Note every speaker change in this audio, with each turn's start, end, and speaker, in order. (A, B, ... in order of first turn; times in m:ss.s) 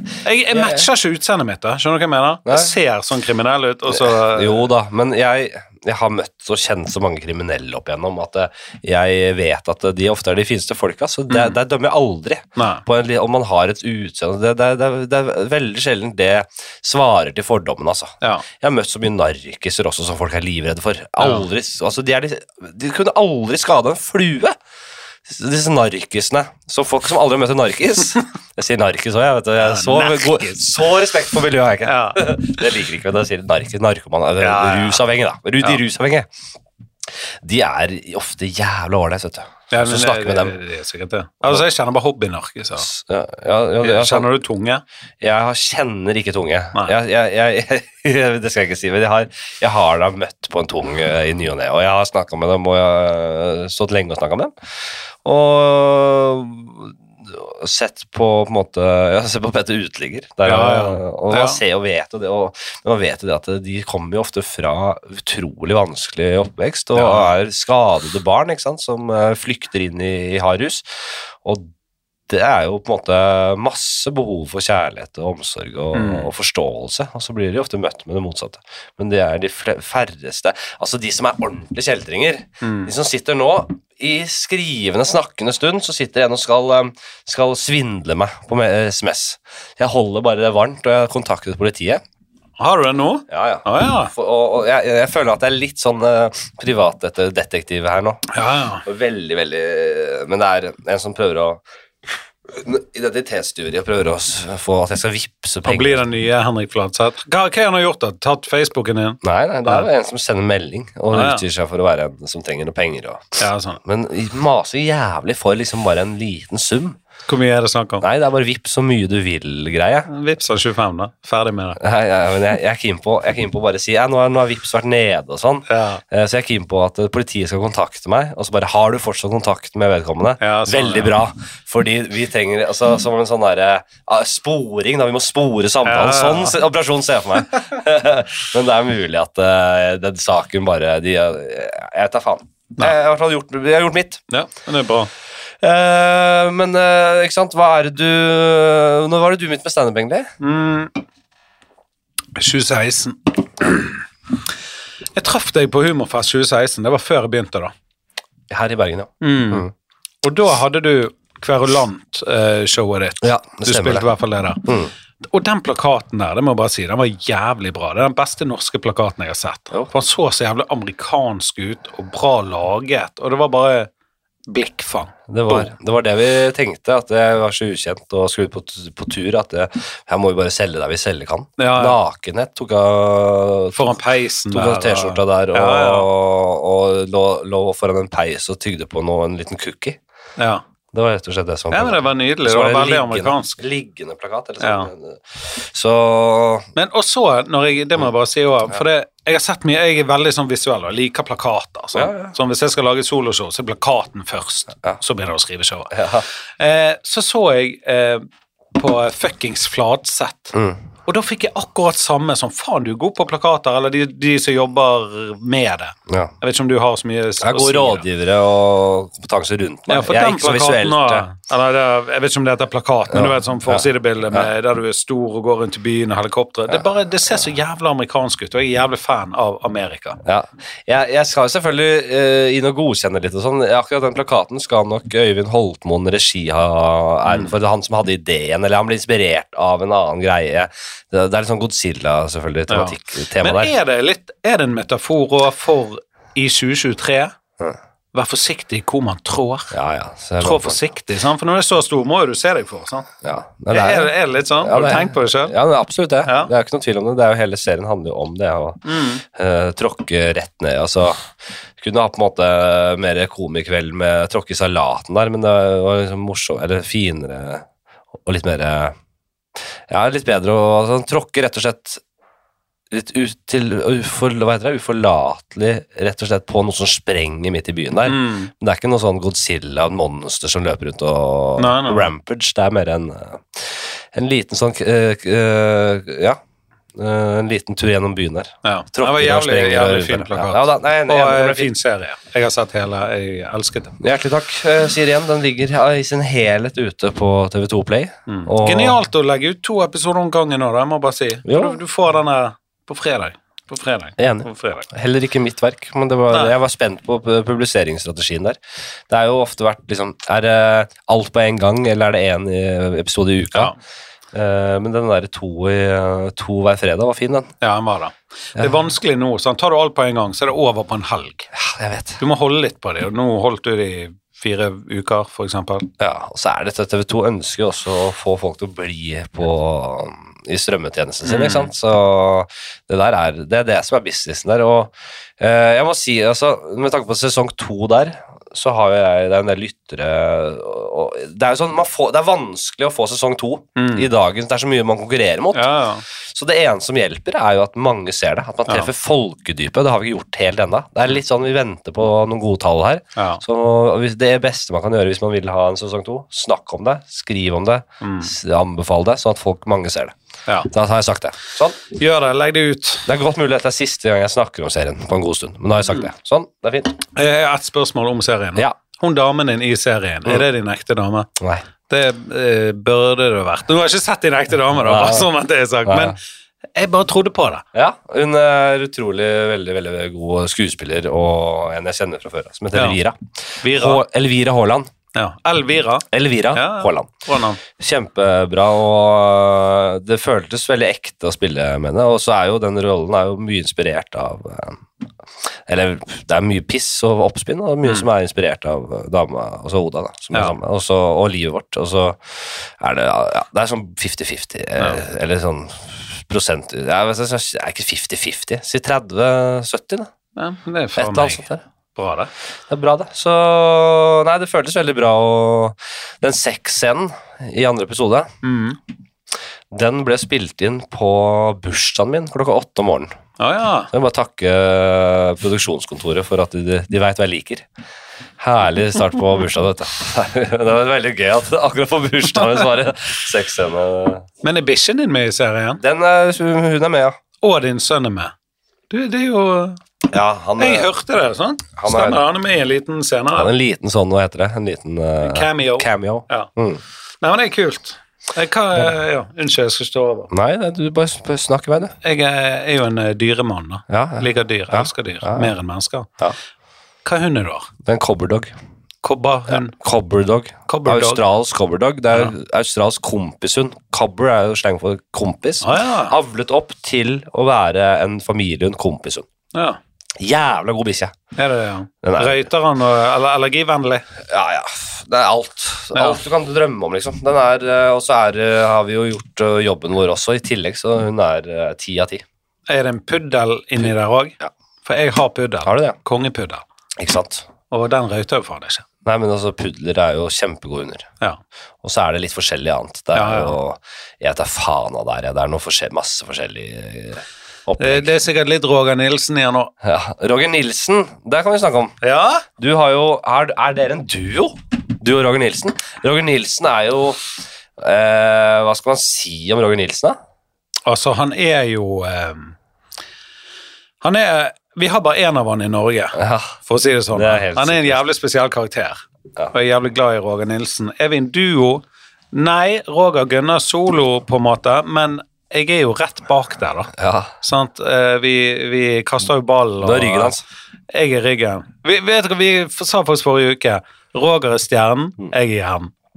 0:00.2-0:04.7 A
0:00.5-0:00.9 B
0:02.5-0:02.7 B
0:03.9-0:24.6 B
0:11.3-0:11.6 A
0:12.6-0:12.8 A
0:21.2-0:21.4 A
0:25.3-0:36.3 B
0:29.6-0:31.1 A
0:31.8-0:32.2 A
0:34.4-0:35.0 A
0:37.4-0:40.6 B
0:39.7-0:42.9 A
0:42.8-0:44.3 B
0:43.8-0:44.8 A
0:45.2-0:54.5 B
0:55.2-1:10.9 B
1:00.4-1:01.6 A
1:07.0-1:07.3 A
1:11.4-1:11.7 B
1:12.3-1:32.0 B
1:15.9-1:16.3 A
1:22.6-1:22.9 A
1:32.6-1:34.1 A
1:33.3-1:38.2 B
1:38.3-1:38.8 A
1:38.8-1:41.6 B
1:42.5-1:46.0 B
1:45.7-1:49.9 A
1:49.2-1:57.0 B
1:51.1-1:51.4 A
1:53.4-1:53.8 A
1:57.3-1:58.0 A
1:58.0-2:00.1 B
2:00.1-2:01.8 A
2:01.8-2:24.2 B
2:05.7-2:06.0 A
2:10.4-2:11.2 A
2:15.8-2:16.6 A
2:24.3-2:25.1 A
2:25.6-2:30.3 B
2:30.4-2:30.9 A
2:32.4-2:34.0 A
2:35.2-2:37.7 A
2:38.5-2:39.7 B
2:39.2-2:39.7 A
2:40.2-2:44.6 A
2:43.2-2:44.1 B
2:44.6-2:44.9 B
2:45.2-2:53.9 A
2:54.5-2:55.7 A
2:55.3-3:10.0 B
3:01.6-3:02.0 A
3:03.7-3:06.1 A
3:10.4-3:10.6 A
3:10.9-3:16.7 B
3:11.7-3:13.6 A
3:14.6-3:14.9 A
3:16.8-3:38.1 A
3:21.9-3:22.3 B
3:25.9-3:26.2 B
3:30.5-3:30.8 B
3:37.4-3:41.3 B
3:39.9-3:50.2 A
3:43.1-3:44.5 B
3:50.2-4:03.7 B
3:57.3-3:57.5 A
4:02.7-4:07.4 A
4:08.1-4:09.7 A
4:09.7-4:10.8 B
4:10.4-4:13.1 A
4:13.2-4:27.6 B
4:13.7-4:15.6 A
4:16.3-4:16.5 A
4:18.8-4:19.2 A
4:28.2-4:29.0 B
4:29.9-4:32.0 B
4:32.9-4:46.4 B
4:38.1-4:38.5 A
4:41.6-4:42.1 A
4:47.0-4:51.7 B
4:48.6-4:54.0 A
4:54.0-4:59.0 B
4:58.3-5:04.9 A
5:01.4-5:01.8 B
5:04.2-5:13.7 B
5:14.3-5:17.5 B
5:17.6-5:21.5 A
5:21.5-5:22.2 B
5:22.2-5:25.9 A
5:26.0-5:45.7 B
5:31.2-5:31.7 A
5:43.8-5:44.1 A
5:45.5-5:46.0 A
5:46.3-6:00.1 B
5:53.2-5:53.4 A
5:58.0-5:58.3 A
6:00.7-6:01.8 B
6:01.9-6:03.1 A
6:03.1-6:07.0 B
6:07.1-6:11.3 A
6:11.4-6:11.6 B
6:11.9-6:16.2 A
6:14.8-6:15.3 B
6:15.9-6:16.2 B
6:16.8-6:17.6 A
6:17.7-6:24.9 B
6:22.7-6:23.0 A
6:23.6-6:24.0 A
6:25.2-6:27.6 A
6:26.1-6:27.1 B
6:27.7-6:34.8 B
6:35.7-6:50.1 B
6:44.8-6:45.0 A
6:50.4-6:52.3 A
6:51.0-6:51.6 B
6:52.7-6:58.3 B
6:58.4-6:58.8 A
6:59.7-7:03.2 B
7:03.4-7:03.9 A
7:03.9-7:07.7 B
7:08.4-7:14.2 B
7:14.4-7:15.8 A
7:15.8-7:17.2 B
7:17.4-7:18.3 A
7:18.9-7:19.8 A
7:20.1-7:20.9 B
7:20.6-7:23.5 A
7:21.8-7:22.2 B
7:23.4-7:26.8 B
7:25.2-7:26.5 A
7:27.2-7:30.3 A
7:30.3-7:32.0 B
7:32.0-7:36.1 A
7:33.9-7:35.5 B
7:37.0-7:37.7 A
7:37.8-7:38.5 B
7:39.0-7:39.8 A
7:39.7-7:49.3 B
7:40.7-7:41.2 A
7:45.6-7:46.2 A
7:49.5-7:49.8 A
7:50.2-7:51.2 B
7:51.4-7:54.1 A
7:52.0-7:52.4 B
7:54.2-8:02.2 B
7:55.9-7:56.2 A
8:02.7-8:06.6 A
8:05.6-8:06.0 B
8:07.0-8:07.5 B
8:07.7-8:08.9 A
8:09.0-8:11.1 B
8:11.8-8:18.1 B
8:13.1-8:13.6 A
8:17.8-8:19.7 A
8:19.8-8:22.0 B
8:22.0-8:22.4 A
8:22.6-8:27.2 B
8:27.8-8:30.2 B
8:30.9-8:32.6 A
8:34.0-8:55.9 A
8:36.2-8:36.6 B
8:37.1-8:38.0 B
8:47.0-8:47.3 B
8:49.8-8:50.4 B